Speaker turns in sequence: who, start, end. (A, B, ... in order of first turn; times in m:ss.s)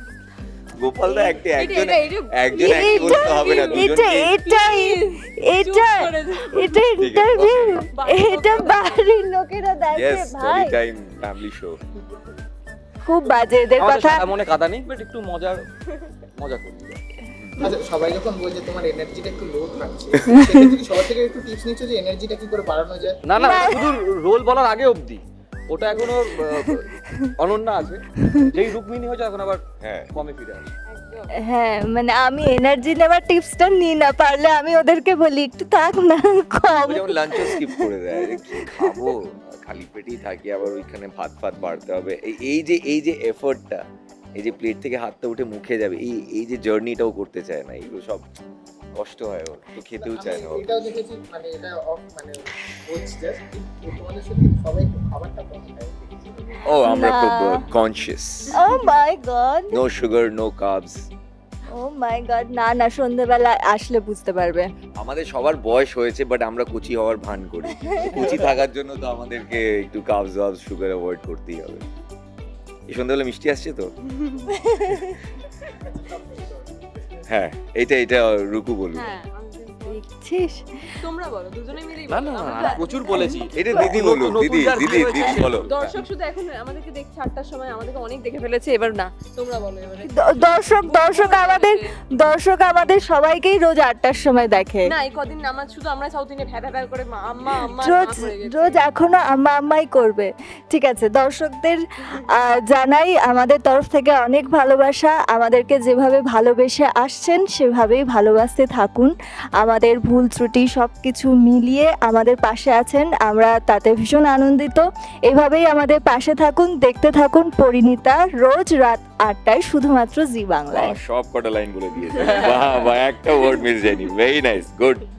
0:00.8-0:04.3 A
0:01.1-0:06.8 B
0:02.5-0:10.8 C
0:07.0-0:07.8 A
0:07.9-0:09.0 B
0:09.9-0:11.8 A
0:13.0-0:14.3 C
0:13.8-0:15.6 D
0:16.4-0:17.0 D
0:17.3-0:17.8 A
0:17.6-0:23.2 E
0:20.4-0:20.7 C
0:23.3-0:30.7 D
0:23.4-0:23.9 C
0:29.8-0:30.1 A
0:30.9-0:31.3 B
0:31.4-0:38.9 C
0:36.8-0:43.8 A
0:44.4-0:48.2 A
0:49.0-0:50.6 A
0:49.9-0:56.8 E
0:56.6-0:58.6 A
0:56.8-0:57.6 C
0:58.5-0:59.8 C
0:59.7-1:01.0 A
1:01.7-1:04.7 C
1:05.0-1:11.8 A
1:07.7-1:08.3 C
1:12.9-1:13.9 A
1:14.5-1:15.1 C
1:15.7-1:17.2 E
1:17.3-1:19.0 A
1:18.9-1:20.0 B
1:19.8-1:20.6 C
1:21.0-1:22.8 B
1:22.1-1:25.7 D
1:22.6-1:23.4 C
1:23.5-1:26.0 A
1:25.3-1:31.9 B
1:30.0-1:34.9 C
1:34.8-1:38.8 B
1:37.5-1:41.8 C
1:42.3-2:01.0 C
2:00.7-2:05.0 A
2:02.2-2:02.8 B